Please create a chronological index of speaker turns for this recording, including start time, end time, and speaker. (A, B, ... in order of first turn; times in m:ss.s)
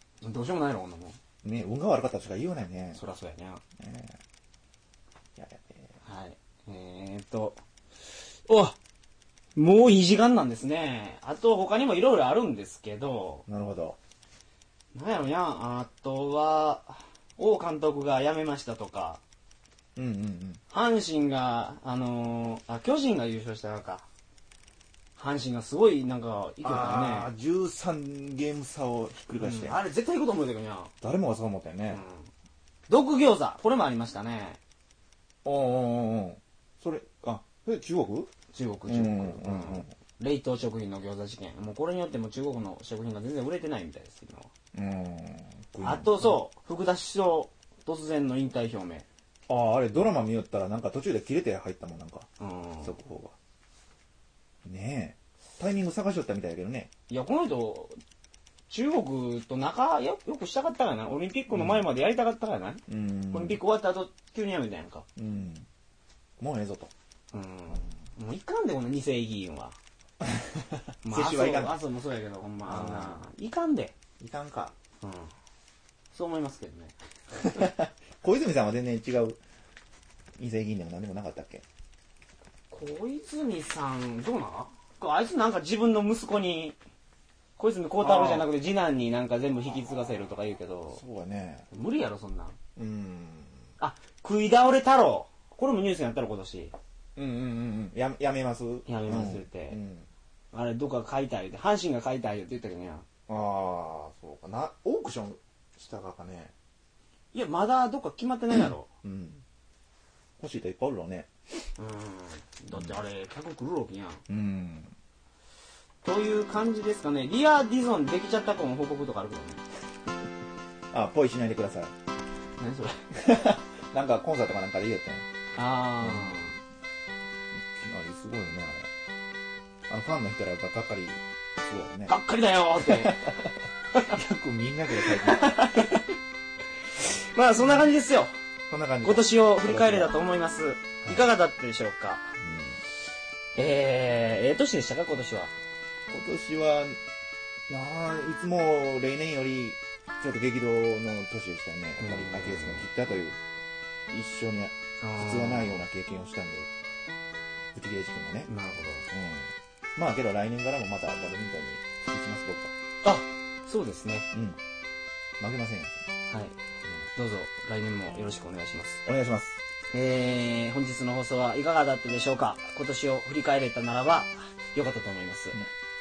0:00.2-0:01.2 A
0:01.4-0:03.0 B
0:03.0-0:03.6 A
0:03.8-0:04.2 B
0:05.4-0:05.9 B
0:06.0-0:08.8 A
0:09.6-0:13.4 A
0:13.5-0:14.0 B
0:14.9-0:19.2 A
0:20.0-0:20.6 B
0:20.7-0:24.0 A
0:25.2-0:27.3 A
0:26.6-0:29.8 B
0:29.4-0:30.9 A
0:31.0-0:32.0 B
0:31.9-0:32.3 A
0:32.9-0:34.6 A
0:35.4-0:38.3 B
0:38.5-0:44.5 A
0:38.9-0:39.9 B
0:44.7-0:46.4 B
0:45.8-0:49.0 A
0:49.5-0:52.3 B
0:52.4-0:53.0 A
0:52.8-0:53.4 B
0:54.6-0:56.9 B
0:57.1-0:58.0 A
0:58.7-1:05.1 A
1:01.5-1:01.8 B
1:02.9-1:03.6 B
1:05.2-1:05.7 B
1:06.4-1:06.9 B
1:07.3-1:09.8 A
1:10.2-1:11.8 B
1:11.0-1:13.9 A
1:12.7-1:13.2 B
1:14.2-1:14.7 B
1:15.0-1:15.3 A
1:16.1-1:16.9 A
1:17.4-1:19.4 B
1:20.4-1:21.6 B
1:22.7-1:26.8 A
1:27.6-1:31.0 A
1:28.0-1:28.5 B
1:30.9-1:31.7 B
1:31.7-1:32.6 A
1:32.8-1:33.6 B
1:33.8-1:36.8 A
1:37.2-1:40.1 B
1:38.9-1:39.8 A
1:40.5-1:43.0 A
1:43.3-1:46.5 B
1:47.3-1:48.9 A
1:49.0-1:49.4 B
1:50.4-1:51.3 B
1:51.8-1:54.2 A
1:52.7-1:53.0 B
1:54.3-1:54.9 B
1:56.0-1:59.6 A
2:00.9-2:01.9 B
2:02.6-2:03.1 A
2:03.1-2:05.3 B
2:05.6-2:06.6 A
2:06.0-2:06.4 B
2:07.5-2:08.9 B
2:09.9-2:12.2 B
2:12.1-2:14.2 A
2:12.8-2:16.0 B
2:14.9-2:16.1 A
2:17.3-2:18.3 A
2:17.6-2:17.9 B
2:18.7-2:20.1 B
2:19.0-2:22.4 A
2:22.4-2:22.8 B
2:23.6-2:25.5 A
2:26.1-2:27.0 B
2:27.7-2:33.4 B
2:32.0-2:32.9 A
2:34.1-2:36.7 B
2:35.0-2:35.8 A
2:37.7-2:38.5 B
2:38.5-2:39.1 A
2:39.1-2:42.7 B
2:43.0-2:44.3 A
2:44.3-2:44.6 B
2:45.4-2:46.0 B
2:46.3-2:46.6 A
2:47.2-2:49.0 A
2:49.0-2:49.6 B
2:49.9-2:55.6 A